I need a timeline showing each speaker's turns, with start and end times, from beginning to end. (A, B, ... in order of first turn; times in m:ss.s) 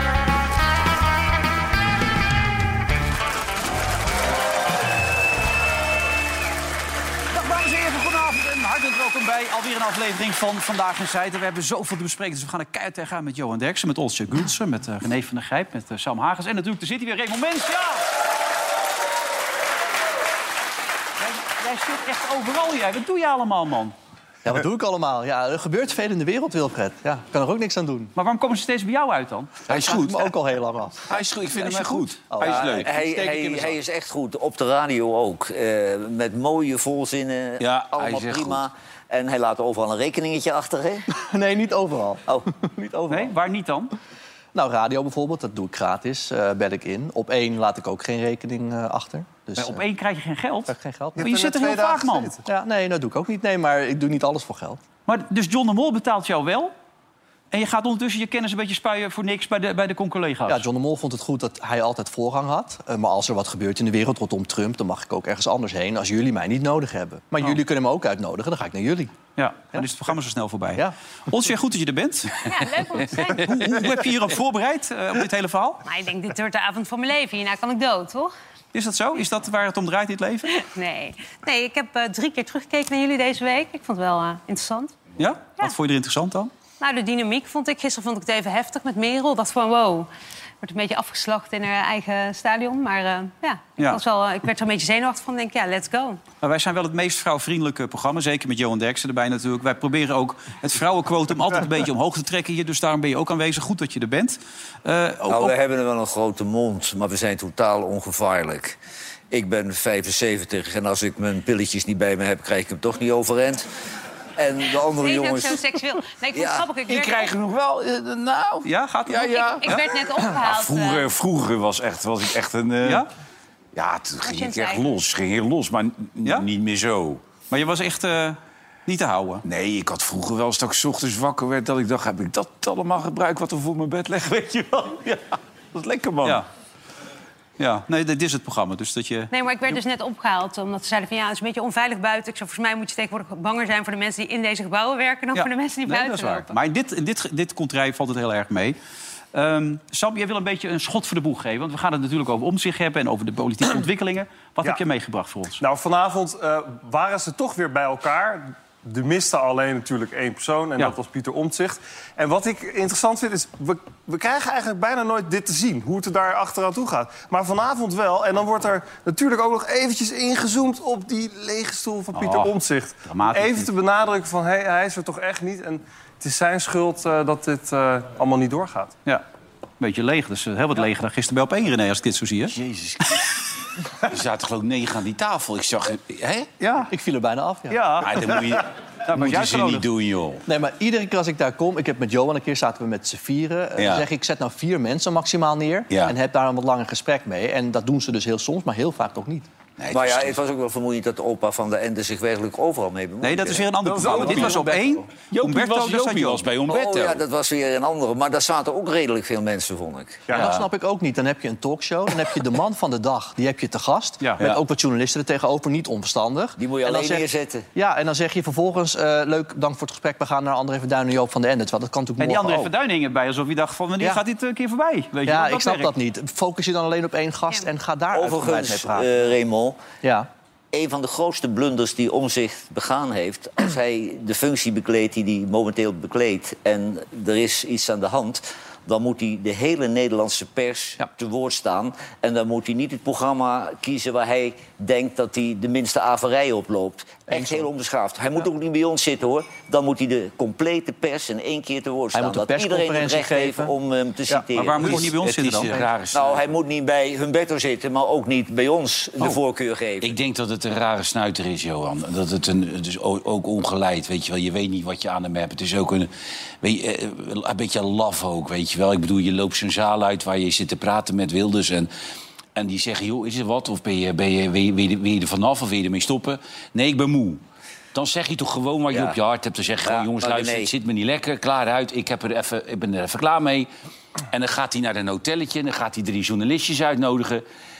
0:07.3-0:18.0 A
0:21.2-0:23.9 A
0:24.4-0:28.1 B
0:28.2-0:29.6 A
0:29.7-0:33.8 B
0:29.7-0:30.3 C
0:31.1-0:32.9 C
0:32.4-0:41.1 D
0:37.6-0:38.6 C
0:41.2-0:43.3 B
0:43.1-0:43.9 A
0:44.5-0:49.8 B
0:49.6-0:52.3 A
0:50.7-0:51.2 B
0:51.2-0:52.4 E
0:52.4-0:54.8 B
0:55.1-0:56.7 A
0:57.5-1:00.6 A
1:00.5-1:09.2 B
1:09.4-1:12.4 A
1:12.4-1:13.8 F
1:13.1-1:15.8 A
1:15.8-1:18.3 F
1:18.7-1:20.5 A
1:20.5-1:24.9 F
1:25.2-1:26.5 A
1:26.8-1:30.1 F
1:30.6-1:36.2 F
1:36.4-1:45.5 A
1:45.3-1:48.8 D
1:49.3-1:53.7 D
1:54.4-1:55.6 D
1:55.0-1:57.3 F
1:56.3-1:56.7 D
1:56.9-2:03.0 C
1:58.6-1:59.8 A
1:59.4-2:01.0 F
2:02.8-2:03.1 A
2:03.7-2:07.3 C
2:04.2-2:04.8 F
2:07.5-2:09.4 A
2:09.4-2:16.4 C
2:17.6-2:19.3 A
2:19.3-2:26.5 F
2:25.3-2:28.8 A
2:29.3-2:35.6 A
2:35.6-2:58.9 E
2:52.1-2:52.5 A
2:53.1-2:53.6 A
2:59.8-3:02.5 A
3:02.4-3:03.4 C
3:04.1-3:06.5 C
3:06.6-3:06.9 A
3:06.9-3:07.8 B
3:07.7-3:08.2 A
3:08.0-3:10.4 C
3:09.0-3:09.9 A
3:10.5-3:19.5 B
3:13.8-3:14.1 C
3:19.8-3:20.4 C
3:19.9-3:23.7 D
3:23.2-3:26.4 A
3:23.8-3:25.0 B
3:23.9-3:27.2 C
3:26.7-3:30.3 D
3:30.3-3:42.7 B
3:30.4-3:30.6 C
3:34.2-3:34.6 A
3:36.6-3:37.6 D
3:42.2-3:45.9 A
3:45.2-3:49.3 B
3:48.1-3:49.8 D
3:50.0-3:50.3 B
3:50.7-4:15.1 D
4:07.3-4:07.7 B
4:12.1-4:13.7 B
4:14.6-4:15.7 A
4:14.6-4:16.6 C
4:14.8-4:15.1 B
4:16.1-4:20.1 D
4:20.0-4:26.1 C
4:26.6-4:31.9 C
4:32.5-4:37.4 C
4:37.9-4:43.7 C
4:38.9-4:39.2 D
4:39.8-4:40.7 D
4:44.3-4:47.4 C